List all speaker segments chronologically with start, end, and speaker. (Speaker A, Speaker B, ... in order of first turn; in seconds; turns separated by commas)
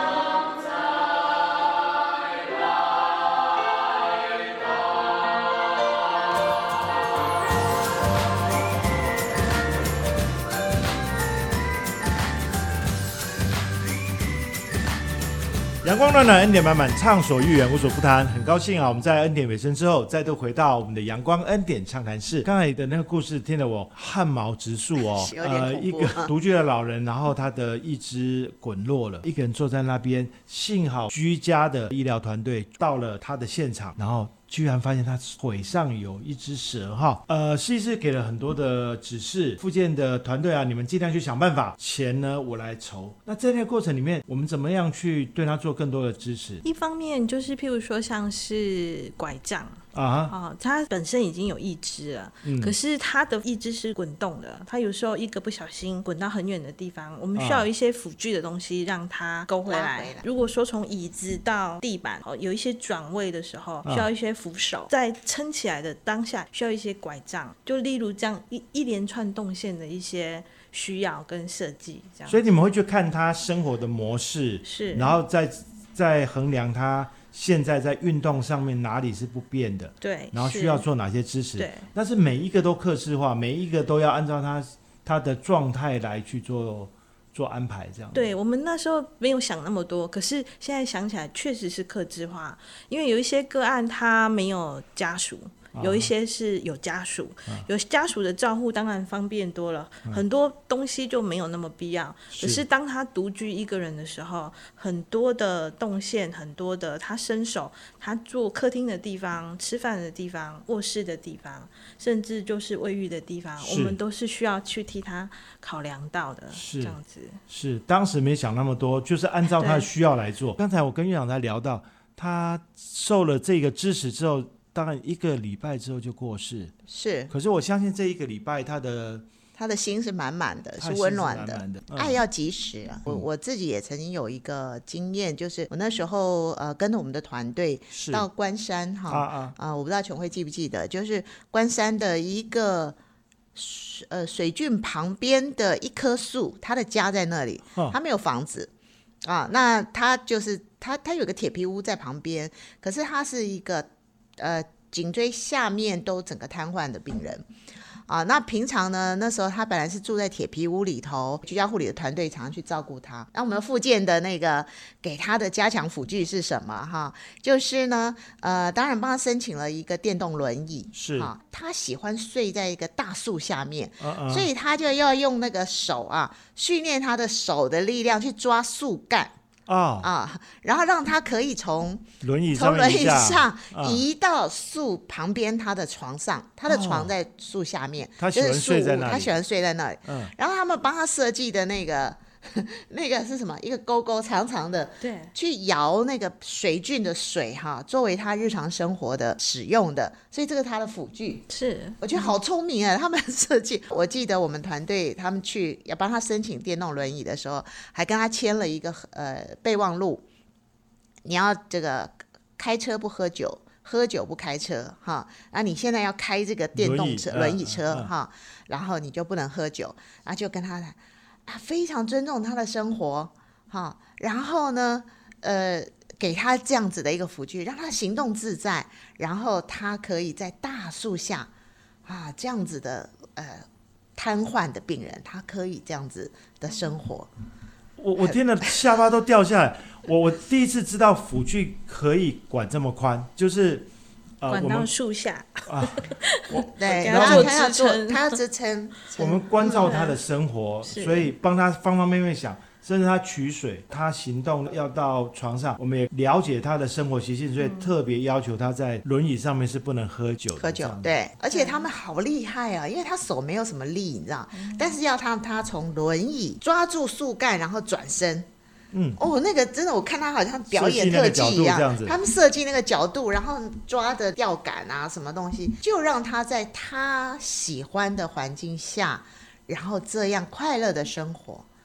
Speaker A: 15.8-46.6, Speaker B: 25.0-26.3, Speaker C: 46.6-72.4, Speaker A: 49.9-50.3, Speaker A: 52.4-52.8, Speaker A: 57.4-57.7, Speaker B: 59.7-60.3, Speaker A: 72.3-88.3, Speaker C: 74.7-75.2, Speaker C: 80.0-80.8, Speaker C: 81.6-81.9, Speaker C: 88.1-117.4, Speaker A: 95.8-96.1, Speaker A: 102.3-102.6, Speaker A: 113.6-114.0, Speaker A: 116.5-117.0, Speaker A: 117.5-126.7, Speaker C: 119.6-119.8, Speaker B: 126.9-127.3, Speaker A: 127.3-129.2, Speaker B: 129.6-143.0, Speaker A: 130.8-132.2, Speaker A: 137.9-138.3, Speaker A: 139.1-139.6, Speaker B: 143.6-148.7, Speaker B: 149.2-157.4, Speaker B: 158.1-179.4, Speaker A: 170.9-171.3, Speaker A: 174.0-174.5, Speaker A: 179.7-180.1, Speaker B: 180.0-201.5, Speaker A: 182.2-184.0, Speaker A: 186.7-187.1, Speaker A: 188.2-189.3, Speaker A: 190.1-190.3, Speaker C: 195.0-195.3, Speaker C: 201.5-202.3, Speaker B: 202.0-210.2, Speaker B: 211.2-231.5, Speaker A: 216.8-218.1, Speaker B: 232.1-237.3, Speaker A: 238.0-243.9, Speaker A: 244.4-244.9, Speaker C: 244.5-248.4, Speaker A: 245.7-247.5, Speaker B: 246.8-250.0, Speaker A: 249.2-261.1, Speaker C: 249.8-250.2, Speaker C: 250.9-251.3, Speaker C: 257.6-257.9, Speaker B: 260.6-268.5, Speaker C: 261.5-261.9, Speaker C: 264.5-265.0, Speaker A: 268.9-269.2, Speaker B: 269.2-281.7, Speaker A: 270.7-272.2